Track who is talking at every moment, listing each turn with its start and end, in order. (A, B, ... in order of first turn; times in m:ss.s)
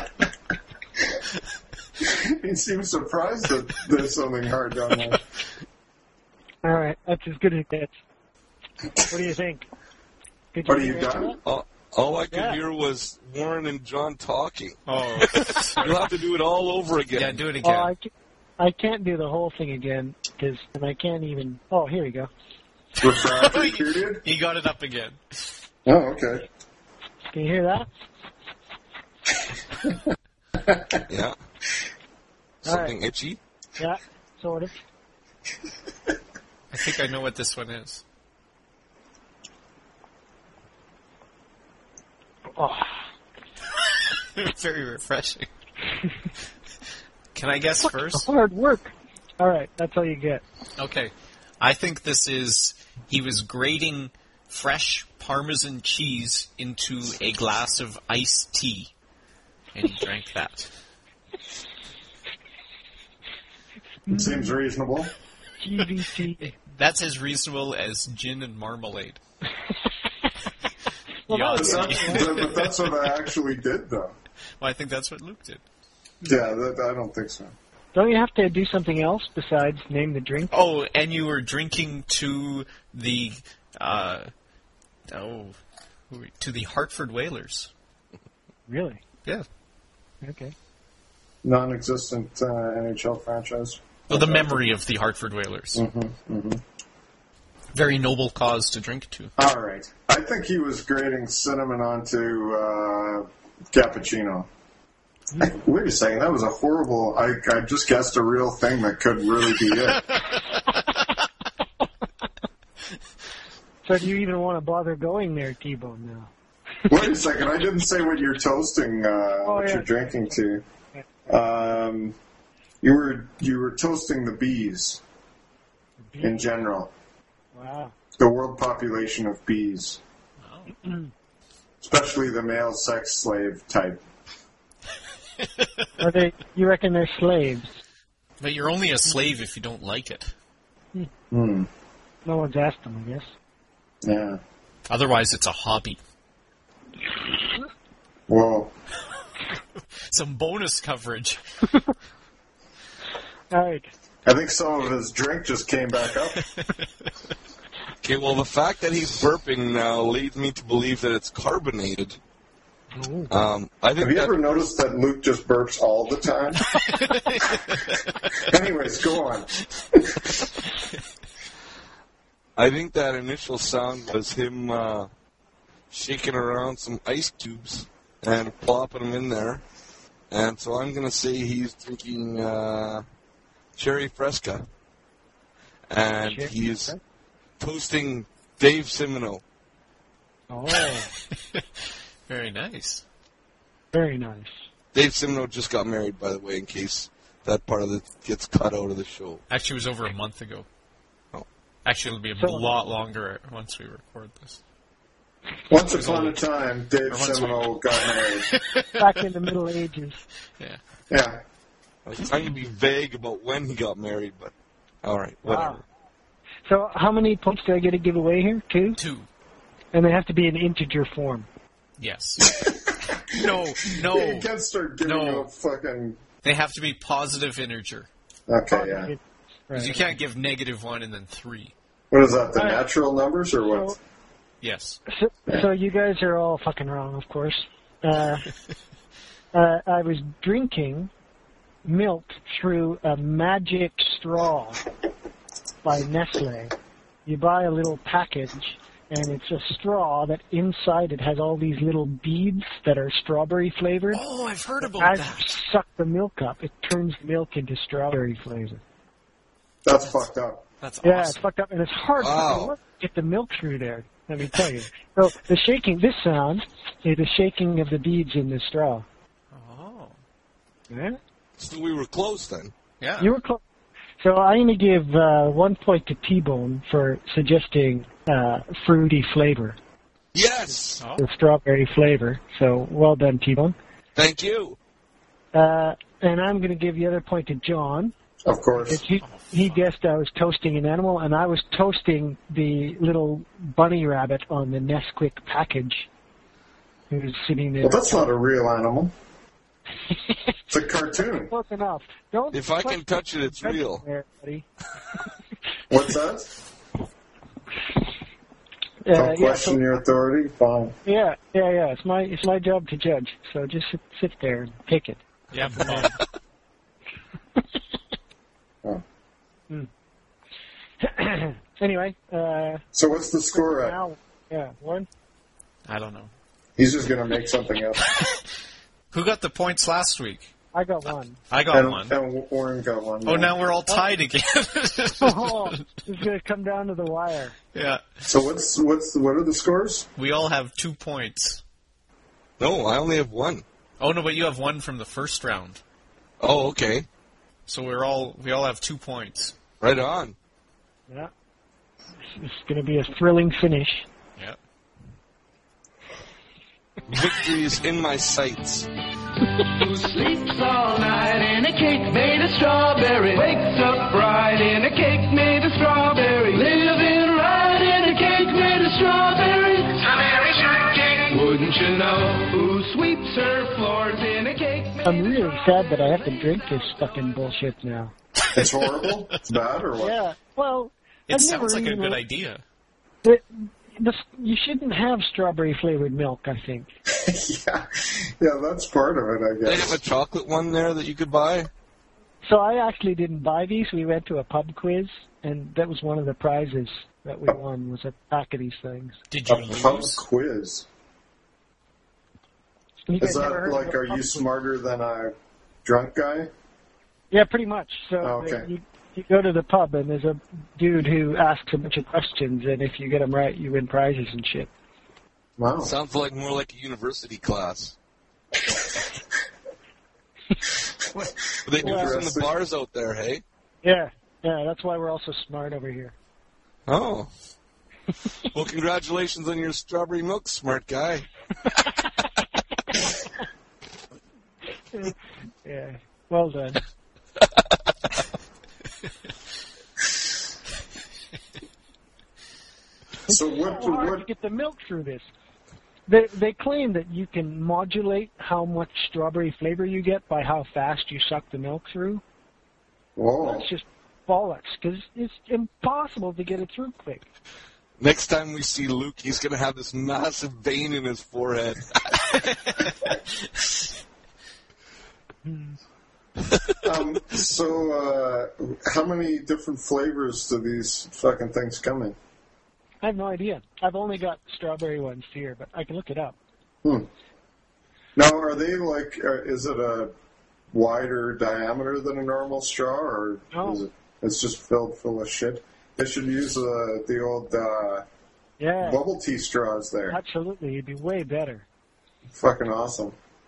0:02.0-0:05.2 A
0:06.6-0:07.9 B
0:09.0-0:09.7 B
0:10.5-0:11.4 B
0:10.6-0:11.4 A
0:11.4-0:17.4 C
0:12.3-0:12.6 B
0:14.9-0:15.9 D
0:17.1-0:17.9 D
0:17.6-0:22.3 B
0:23.0-0:24.2 A
0:23.0-0:25.5 D
0:25.8-0:26.4 A
0:27.3-0:27.9 B
0:30.6-0:31.0 A
0:31.1-0:31.4 C
0:32.6-0:33.4 C
0:32.6-0:33.0 B
0:33.8-0:34.8 B
0:36.7-0:38.0 D
0:42.6-0:42.9 B
0:44.1-0:45.5 D
0:47.3-0:48.3 D
0:47.8-0:50.4 B
0:50.8-0:58.9 D
0:59.7-1:00.7 D
1:04.1-1:04.5 B
1:04.1-1:05.1 A
1:05.6-1:06.5 B
1:06.4-1:09.2 D
1:11.3-1:12.4 B
1:11.3-1:12.6 D
1:11.6-1:14.1 A
1:14.6-1:15.6 D
1:16.2-1:17.5 A
1:17.9-1:20.6 B
1:20.5-1:24.3 D
1:25.1-1:25.6 D
1:26.1-1:27.7 D
1:28.7-1:29.0 B
1:30.2-1:30.5 B
1:31.4-1:34.7 A
1:34.1-1:35.8 D
1:35.7-1:36.6 A
1:37.7-1:39.3 D
1:39.4-1:44.5 A
1:45.4-1:50.0 A
1:53.8-1:56.3 B
1:56.9-2:00.6 A
1:59.4-2:00.3 B
2:01.3-2:02.1 A
2:02.8-2:05.0 A
2:06.0-2:06.4 B
2:06.2-2:06.9 A
2:07.5-2:07.9 B
2:08.2-2:10.0 A
2:10.4-2:10.8 D
2:10.8-2:11.1 B
2:11.8-2:14.0 A
2:16.0-2:17.7 B
2:18.4-2:20.3 D
2:21.3-2:21.7 A
2:22.2-2:23.3 B
2:24.0-2:24.4 A
2:24.9-2:26.0 D
2:28.3-2:28.7 A
2:30.1-2:31.4 D
2:33.5-2:33.9 B
2:34.2-2:36.4 A
2:38.0-2:42.2 C
2:42.9-2:43.3 B
2:43.3-2:44.3 C
2:44.0-2:46.6 A
2:46.8-2:47.9 D
2:48.4-2:50.4 A
2:52.6-2:55.1 C
2:55.9-2:59.6 C
3:00.3-3:03.0 C
3:03.8-3:04.6 C
3:05.9-3:07.0 C
3:06.2-3:07.0 B
3:07.6-3:09.4 C
3:10.5-3:11.1 B
3:11.3-3:11.6 D
3:12.3-3:13.0 D
3:13.9-3:14.5 B
3:14.9-3:19.4 C
3:19.5-3:20.7 D
3:21.8-3:24.6 D
3:22.4-3:22.7 B
3:25.7-3:28.5 A
3:25.7-3:26.4 D
3:27.1-3:28.0 D
3:28.5-3:28.9 D
3:29.0-3:30.2 B
3:31.1-3:31.4 A
3:32.0-3:34.5 C
3:35.0-3:35.8 C
3:35.5-3:35.8 B
3:36.6-3:39.0 B
3:39.0-3:39.3 D
3:39.9-3:41.5 B
3:42.0-3:42.6 D
3:42.6-3:46.2 A
3:43.1-3:44.5 D
3:45.0-3:45.5 D
3:46.4-3:48.1 D
3:48.5-3:49.1 A
3:48.7-3:50.0 B
3:49.8-3:51.7 D
3:52.1-3:53.9 A
3:52.6-3:52.9 B
3:53.6-3:54.0 B
3:54.6-3:55.0 D
3:55.1-3:58.5 B
3:59.5-4:01.1 B
4:01.8-4:04.8 B
4:05.8-4:06.7 B
4:07.2-4:14.2 B
4:14.1-4:15.5 D
4:14.8-4:18.8 B
4:19.8-4:20.6 A
4:20.8-4:21.4 D
4:21.0-4:29.0 B
4:22.2-4:22.7 C
4:29.5-4:30.2 D
4:30.9-4:31.2 B
4:31.6-4:32.7 C
4:33.0-4:33.3 D
4:33.2-4:33.6 B
4:34.2-4:39.8 B
4:40.3-4:41.0 C
4:41.0-4:41.2 D
4:41.2-4:43.7 B
4:44.2-4:44.8 C
4:45.5-4:48.1 B
4:48.4-4:49.0 A
4:48.8-4:56.0 B
4:49.2-4:49.8 D
4:57.1-4:58.3 B
4:57.8-4:59.1 A
5:00.7-5:01.5 A
5:01.5-5:04.6 B
5:02.5-5:04.0 C
5:05.9-5:06.5 A
5:09.0-5:09.8 B
5:09.1-5:10.9 A
5:11.0-5:15.2 B
5:15.5-5:16.2 D
5:15.8-5:16.1 B
5:21.0-5:22.8 B
5:22.9-5:24.0 A
5:23.5-5:25.1 B
5:25.9-5:26.3 D
5:26.8-5:28.0 A
5:29.1-5:30.5 D
5:30.7-5:31.4 B
5:31.5-5:32.1 D
5:31.7-5:33.5 A
5:33.2-5:35.7 D
5:35.2-5:37.6 B
5:37.7-5:38.3 D
5:38.3-5:40.1 A
5:40.2-5:41.6 D
5:42.6-5:43.6 C
5:44.0-5:45.8 D
5:46.4-5:47.1 C
5:47.7-5:49.6 D
5:49.8-5:50.4 C
5:52.2-5:54.0 B
5:57.1-5:58.9 C
5:59.8-6:15.3 E
6:15.0-6:18.1 B
6:18.5-6:20.2 A
6:20.0-6:22.2 B
6:21.3-6:22.6 D
6:23.2-6:26.9 B
6:27.1-6:30.0 A
6:29.6-6:31.7 C
6:32.4-6:39.2 B
6:39.3-6:40.2 D
6:39.5-6:40.8 A
6:43.1-6:44.4 B
6:43.2-6:45.3 A
6:45.8-6:46.5 A
6:47.3-6:54.7 B
6:48.2-6:48.7 A
6:55.6-6:55.9 A
6:55.8-6:57.9 C
7:01.1-7:02.2 B
7:01.6-7:03.4 C
7:01.8-7:02.5 A
7:03.8-7:06.1 B
7:06.9-7:07.3 C
7:08.5-7:11.2 C
7:14.9-7:16.8 B
7:23.3-7:24.2 A
7:23.3-7:25.3 B
7:26.1-7:32.2 B
7:33.2-7:33.7 A
7:33.4-7:37.3 B
7:38.0-7:42.4 C
7:45.4-7:45.8 B
7:46.8-7:52.1 A
7:53.0-7:56.4 B
7:58.2-8:00.1 A
8:00.7-8:08.0 A
8:03.5-8:03.8 B
8:08.6-8:09.0 B
8:08.8-8:10.2 A
8:10.1-8:11.6 B
8:12.3-8:13.1 A